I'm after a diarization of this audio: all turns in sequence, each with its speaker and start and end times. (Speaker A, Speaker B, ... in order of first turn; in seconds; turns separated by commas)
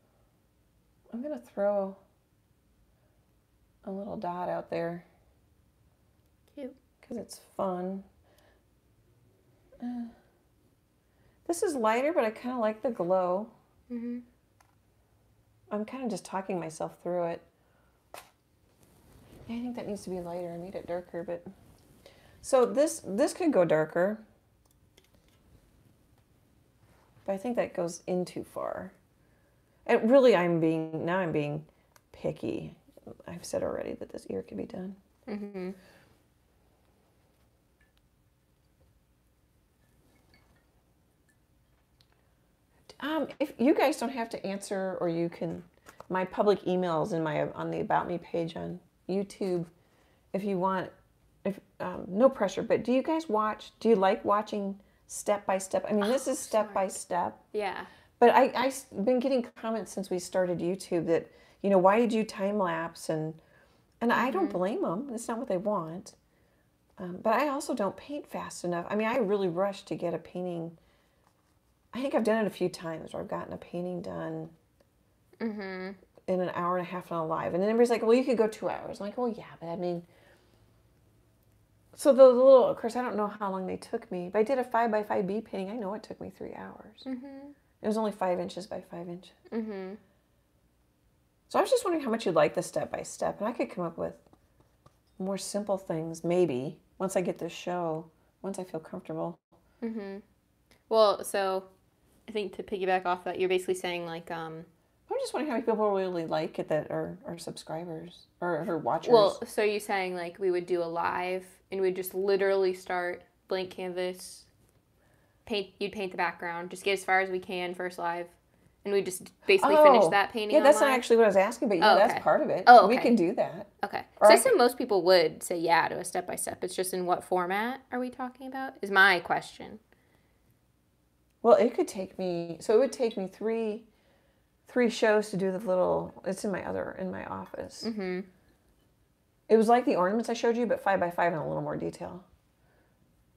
Speaker A: 1.1-2.0, Speaker A: 3.8-5.1, Speaker A: 7.0-8.1, Speaker A: 9.8-10.1, Speaker A: 11.4-13.5, Speaker B: 13.9-14.2, Speaker A: 15.7-17.4, Speaker A: 19.5-21.5, Speaker A: 22.4-24.2, Speaker A: 27.3-28.9, Speaker A: 29.9-35.0, Speaker B: 35.3-35.8, Speaker A: 43.0-49.7, Speaker A: 50.3-50.9, Speaker A: 51.4-57.4, Speaker B: 56.0-56.9, Speaker B: 57.5-57.9, Speaker A: 58.2-63.4, Speaker A: 64.0-66.2, Speaker B: 64.1-64.6, Speaker A: 67.0-70.8, Speaker A: 71.9-74.5, Speaker B: 75.4-76.0, Speaker A: 76.3-80.1, Speaker A: 81.9-87.1, Speaker B: 87.0-87.5, Speaker A: 87.8-89.3, Speaker B: 89.5-90.0, Speaker A: 91.5-94.2, Speaker A: 95.2-99.4, Speaker B: 99.8-100.2, Speaker B: 100.9-101.7, Speaker B: 102.3-104.7, Speaker A: 105.1-109.4, Speaker B: 109.0-114.5, Speaker B: 115.4-121.0, Speaker A: 119.6-124.6, Speaker B: 121.8-123.2, Speaker B: 123.8-129.8, Speaker A: 131.4-133.9, Speaker A: 134.7-137.9, Speaker B: 137.8-138.3, Speaker A: 139.5-142.2